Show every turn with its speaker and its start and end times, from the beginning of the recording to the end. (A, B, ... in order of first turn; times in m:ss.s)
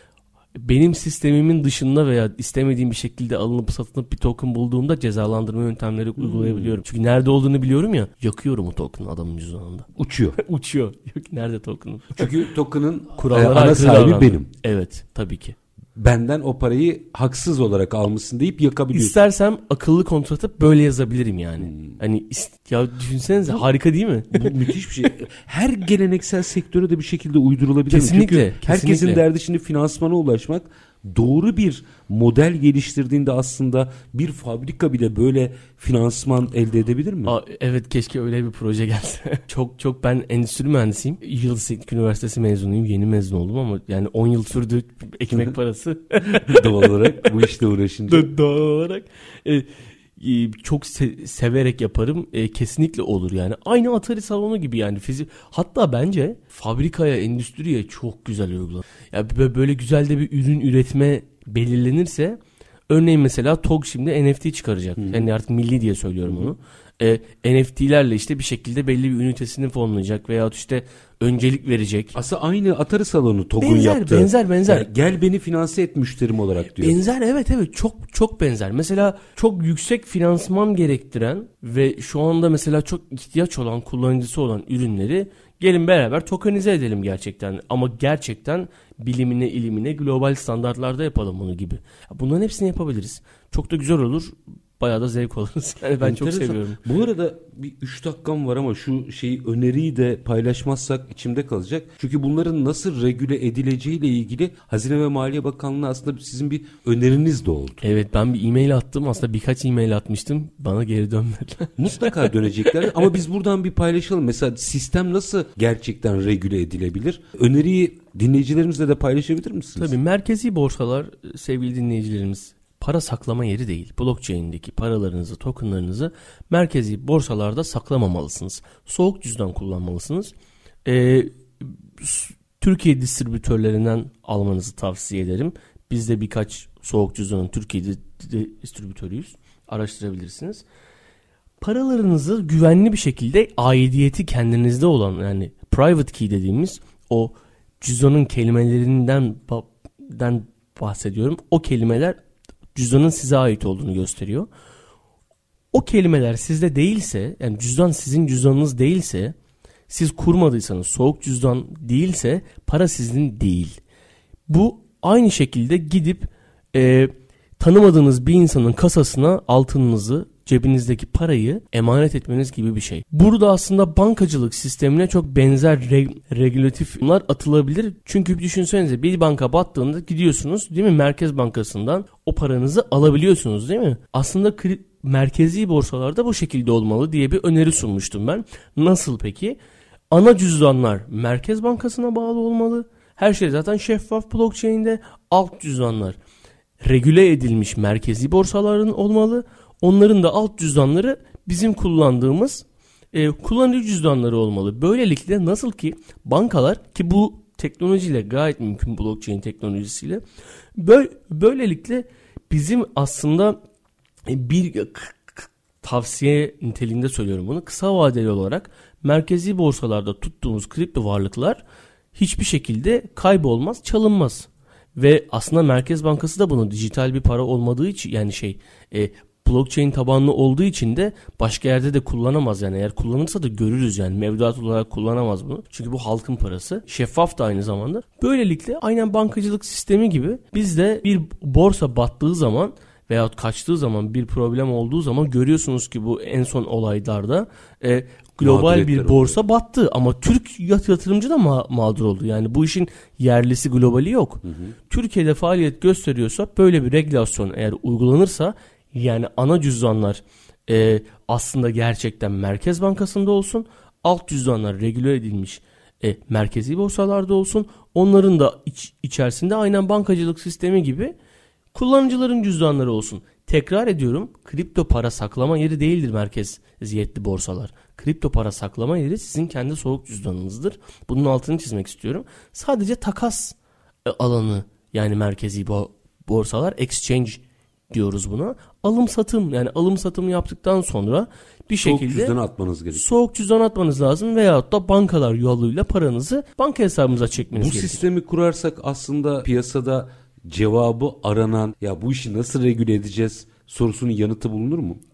0:00.6-0:12.3 A
0:06.2-0:06.8 B
0:10.0-0:10.4 B
0:12.2-0:14.5 B
0:13.2-0:15.6 A
0:16.0-0:19.2 B
0:18.9-0:24.5 A
0:21.6-0:22.0 B
0:24.3-0:37.3 B
0:27.9-0:29.2 A
0:37.2-0:47.5 A
0:45.3-0:45.6 B
0:46.3-0:48.3 B
0:48.1-1:12.2 A
1:05.0-1:05.3 B
1:06.3-1:06.5 B
1:12.2-1:17.0 B
1:13.6-1:14.9 A
1:16.8-1:36.8 A
1:36.0-1:47.8 B
1:47.8-1:53.0 A
1:51.8-2:00.0 B
1:59.8-2:10.3 A
2:10.8-2:20.6 A
2:21.6-2:32.2 A
2:32.8-2:34.5 A
2:35.7-2:39.4 A
2:39.9-2:43.8 A
2:44.5-3:09.6 A
3:10.1-3:16.2 A
3:16.8-3:30.2 A
3:30.8-3:33.6 A
3:34.3-3:41.6 A
3:42.2-4:31.2 A
4:08.4-4:09.4 B
4:14.4-4:14.8 B
4:31.7-4:52.4 A
4:51.7-4:53.1 B
4:52.9-4:58.0 A
4:57.6-5:05.0 B